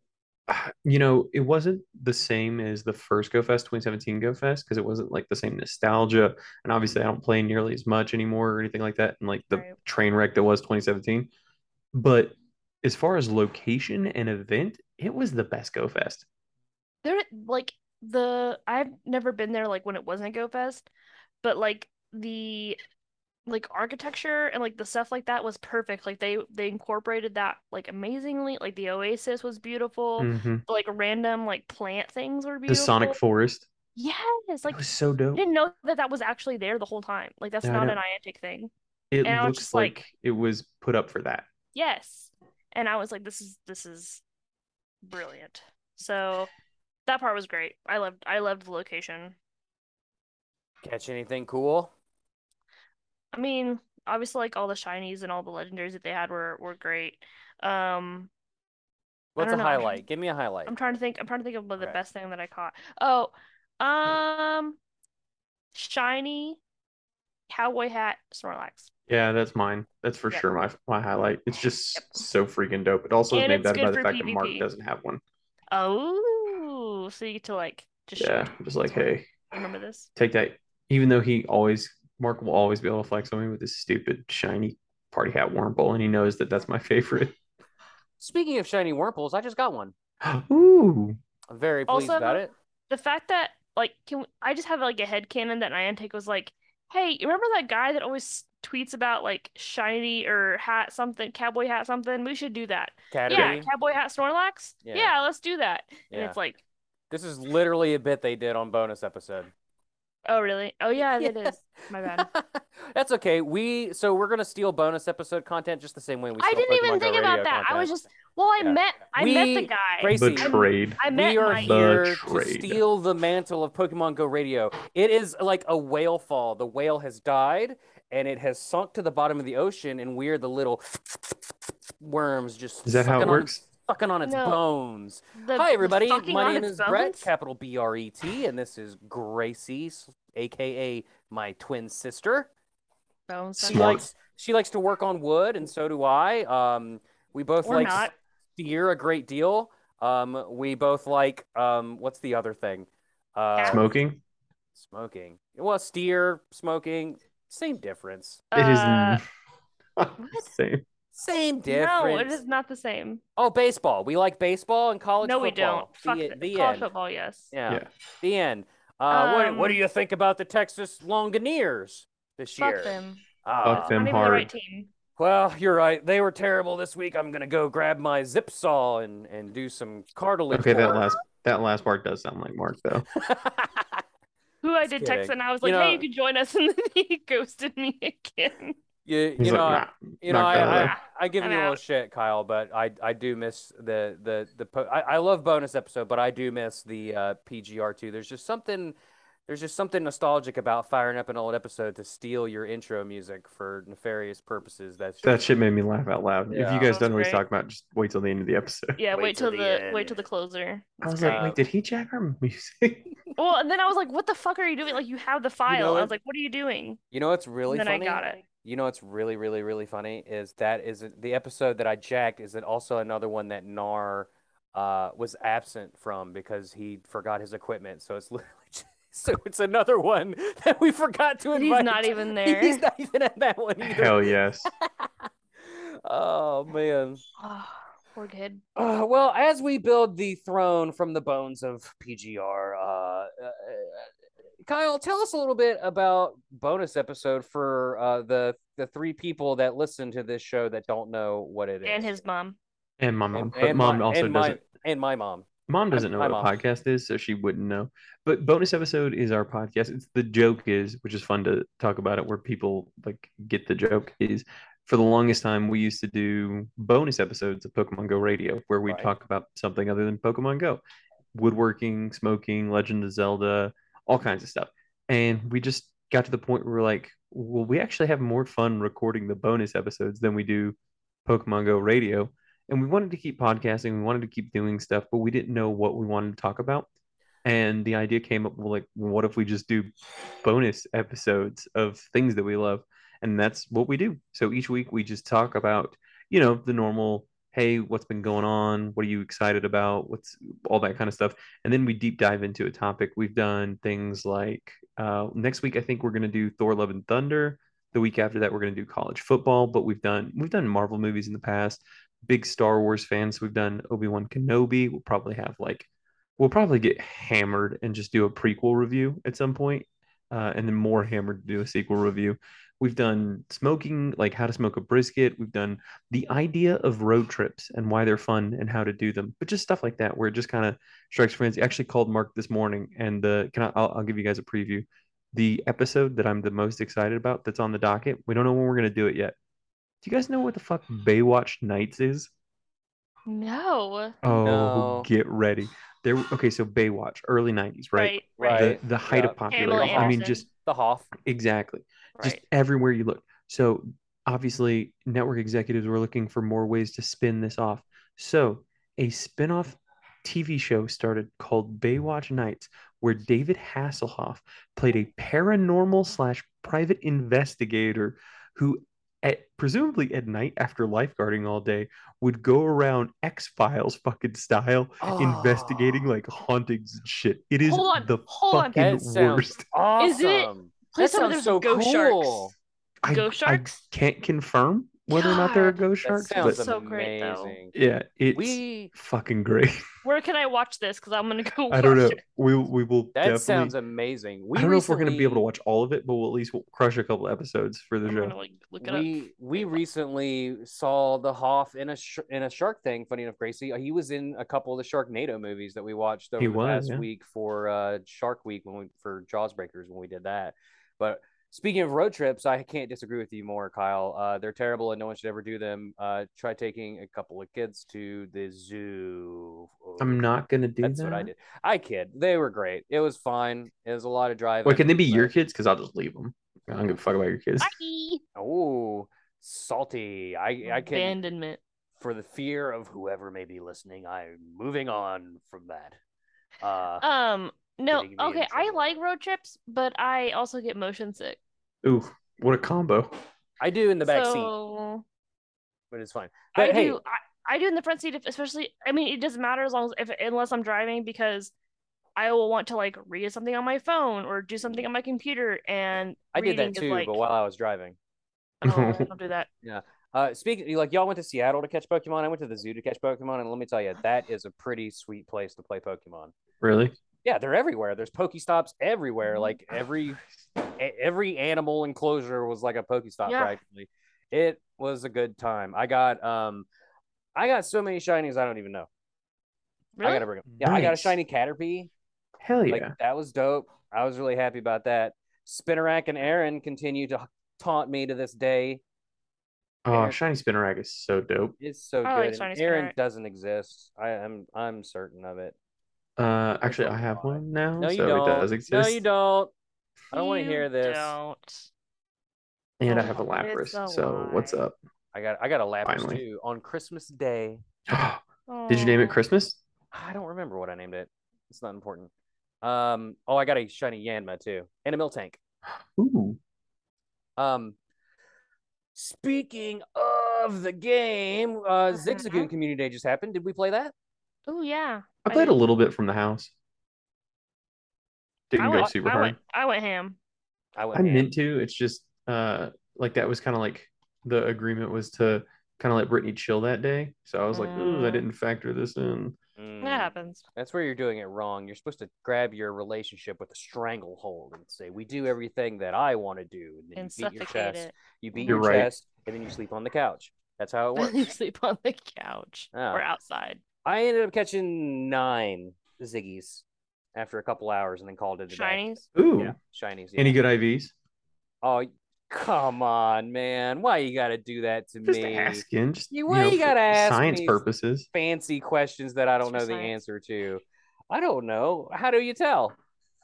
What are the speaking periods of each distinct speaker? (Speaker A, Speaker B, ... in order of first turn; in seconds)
Speaker A: 0.5-11.3, 11.9-16.2, 30.2-30.6, 32.7-33.7, 34.7-35.4, 37.6-38.0, 39.1-41.5, 69.1-75.2, 78.2-79.3, 80.2-87.3, 90.2-91.2, 120.1-122.8, 132.8-133.6, 143.6-144.0, 153.7-154.2, 158.6-159.2, 160.0-160.8, 173.6-174.5, 180.5-183.1, 189.4-190.9, 205.2-209.0, 211.0-213.1, 233.8-234.7, 253.0-254.6, 255.7-270.8, 271.4-286.9, 287.4-289.9, 290.4-315.9, 316.4-339.4, 340.0-342.3, 344.2-350.4, 351.2-379.6, 383.0-386.7, 387.7-389.8, 391.7-393.7, 394.6-398.4, 406.4-407.1, 420.0-421.3, 424.6-427.7, 441.8-443.1, 458.6-459.1, 466.6-467.0, 480.6-481.2, 482.4-482.9, 489.9-491.6, 496.2-499.0, 502.8-504.8, 505.9-506.2, 507.9-509.6, 515.7-516.4, 525.2-526.5, 528.5-529.4, 530.9-539.4, 548.5-548.9, 559.1-559.6, 560.2-560.9, 565.1-568.1
Speaker B: 17.0-20.9, 21.4-22.8, 23.5-33.2, 34.0-34.8, 35.3-38.7, 39.2-40.0, 41.7-44.2, 45.0-46.5, 47.1-49.4, 53.3-58.3, 59.4-60.0, 60.7-64.8, 65.7-66.6, 67.5-68.9, 72.0-72.2, 73.3-74.7, 75.7-80.1, 91.9-106.6, 110.3-112.3, 116.4-121.7, 134.2-134.6, 135.4-137.3, 143.3-144.0, 147.6-148.1, 153.6-153.8, 158.5-159.2, 160.2-160.5, 161.7-163.2, 165.2-167.5, 169.1-169.8, 172.6-174.9, 184.6-188.8, 190.6-191.8, 206.8-207.4, 209.0-210.9, 213.4-217.0, 217.7-218.4, 231.5-232.8, 237.4-238.6, 251.8-252.6, 343.3-344.2, 348.0-348.8, 349.5-350.4, 377.6-378.8, 380.0-382.5, 383.1-383.8, 385.1-385.8, 386.4-387.6, 390.0-392.2, 398.1-399.8, 427.6-428.2, 430.6-431.6, 437.0-441.4, 444.0-445.0, 446.6-451.5, 452.2-457.2, 458.6-459.5, 469.3-469.6, 473.3-473.5, 480.0-480.3, 492.1-492.9, 500.1-501.7, 502.9-504.6, 508.5-509.2, 521.9-522.5, 524.5-525.6, 528.6-530.2, 537.5-538.3, 539.8-540.4, 547.0-548.9, 551.0-553.6, 558.5-559.0, 569.4-570.0
Speaker C: 50.8-51.9, 59.4-60.7, 88.2-89.9, 91.5-92.5, 103.1-103.7, 104.8-105.1, 106.1-106.4, 107.1-109.5, 111.0-117.9, 118.6-142.5, 143.6-153.9, 154.8-158.4, 161.1-162.4, 163.4-166.9, 167.5-174.0, 175.2-181.1, 183.2-184.0, 184.8-186.0, 189.1-198.9, 199.5-205.3, 206.5-206.9, 209.1-210.2, 211.1-211.6, 215.7-216.1, 217.1-237.2, 238.8-244.1, 244.7-252.1, 253.3-256.5, 268.9-269.1, 344.3-345.1, 348.4-351.1, 375.0-376.1, 378.8-382.5, 386.0-387.7, 388.3-388.9, 393.1-395.4, 398.8-420.2, 420.8-425.3, 428.4-431.2, 432.0-436.0, 436.6-437.1, 437.9-438.8, 443.6-444.5, 445.9-447.0, 456.3-458.0, 459.6-466.3, 467.2-470.2, 470.8-476.7, 477.4-478.9, 480.0-481.9, 482.7-488.8, 489.9-490.2, 491.6-495.6, 496.6-499.5, 500.1-501.2, 505.1-507.6, 509.9-512.1, 512.6-515.4, 517.4-517.8, 519.0-523.9, 530.8-531.3, 539.6-551.3, 552.7-553.0, 553.8-556.6, 557.1-560.4, 561.6-572.8